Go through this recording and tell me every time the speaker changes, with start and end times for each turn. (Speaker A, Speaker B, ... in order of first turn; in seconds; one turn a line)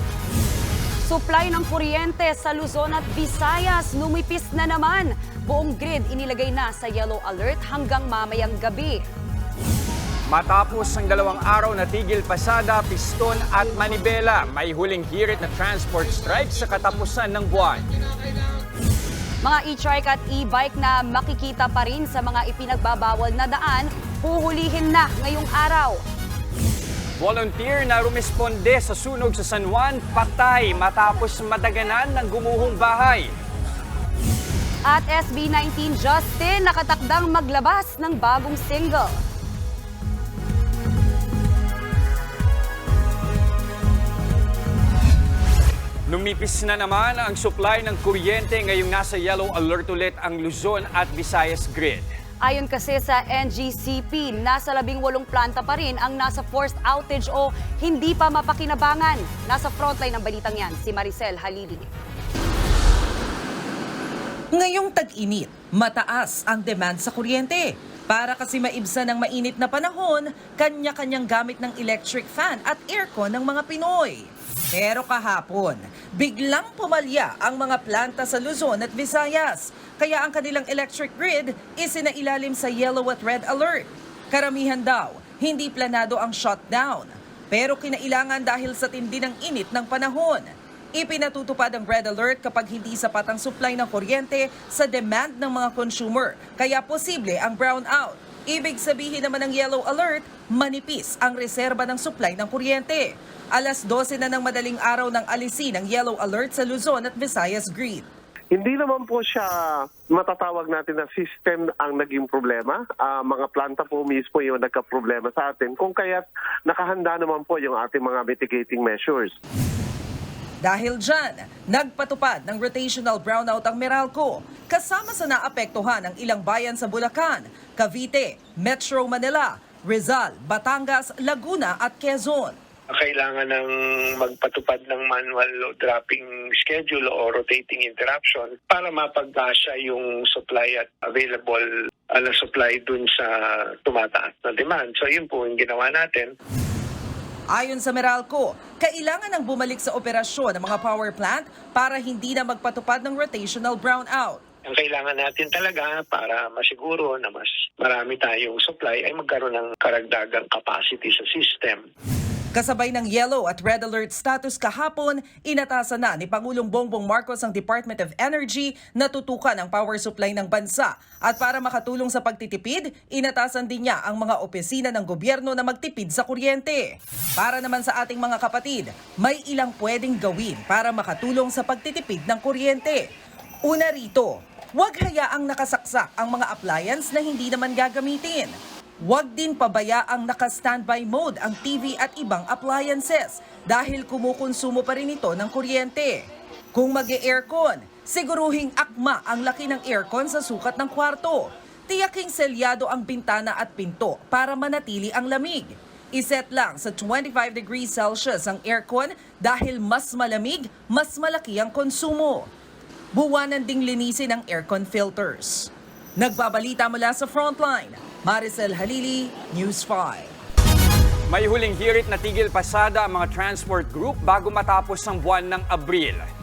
Speaker A: 1.0-9.1
Speaker B: 10.3-17.9
Speaker A: 19.4-26.0
Speaker B: 27.2-33.3
Speaker A: 34.9-39.2
Speaker B: 46.1-52.1
Speaker A: 52.4-61.9
Speaker C: 64.5-108.1
Speaker D: 108.5-119.3
Speaker C: 120.6-132.6
Speaker E: 132.9-146.3
Speaker C: 147.5-154.4
Speaker E: 154.7-161.8
Speaker C: 162.5-183.0
Speaker C: 183.7-188.6
Speaker C: 189.1-196.2
Speaker C: 196.8-212.5
Speaker C: 213.1-220.3
Speaker B: 221.3-226.3